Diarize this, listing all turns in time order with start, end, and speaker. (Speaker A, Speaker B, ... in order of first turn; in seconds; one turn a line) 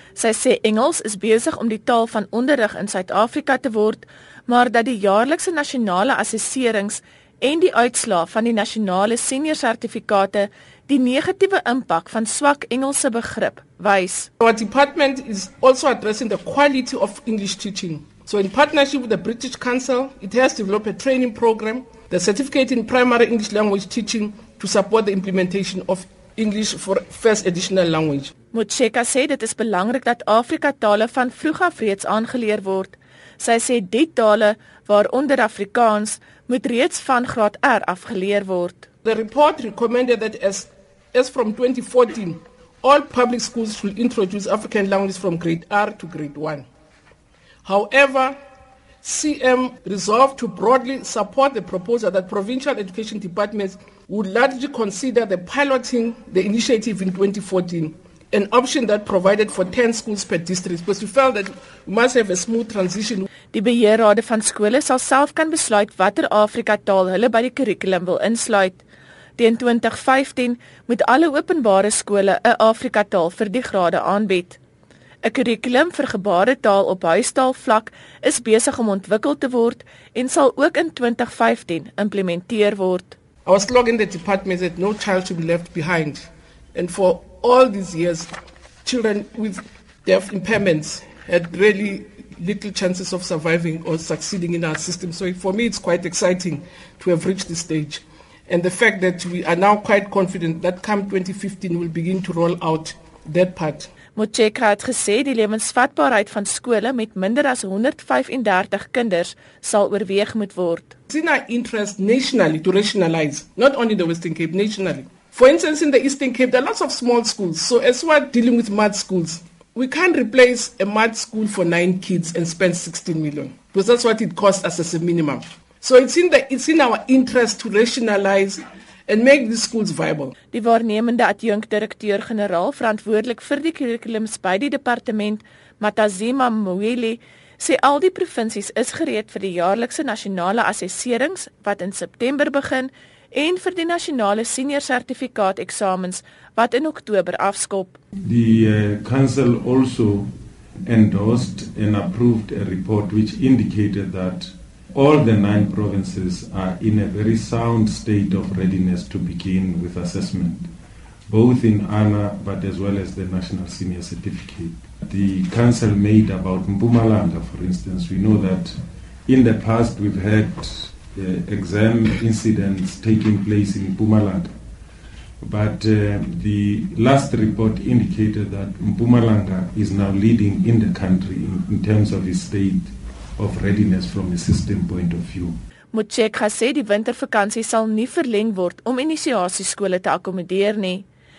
Speaker A: 0.2-14.3
Speaker B: 14.4-28.3
Speaker A: 28.5-38.9
Speaker B: 39.0-46.6
Speaker B: 47.6-48.4
Speaker B: 49.0-63.3
Speaker A: 63.5-68.8
Speaker A: 69.4-74.6
Speaker A: 75.2-83.2
Speaker B: 83.5-88.3
Speaker B: 88.8-103.9
Speaker A: 104.2-110.9
Speaker B: 111.1-130.3
Speaker A: 130.5-148.0
Speaker C: 148.2-150.3
Speaker C: 150.8-160.7
Speaker C: 161.3-174.5
Speaker C: 175.4-185.6
Speaker A: 185.9-191.1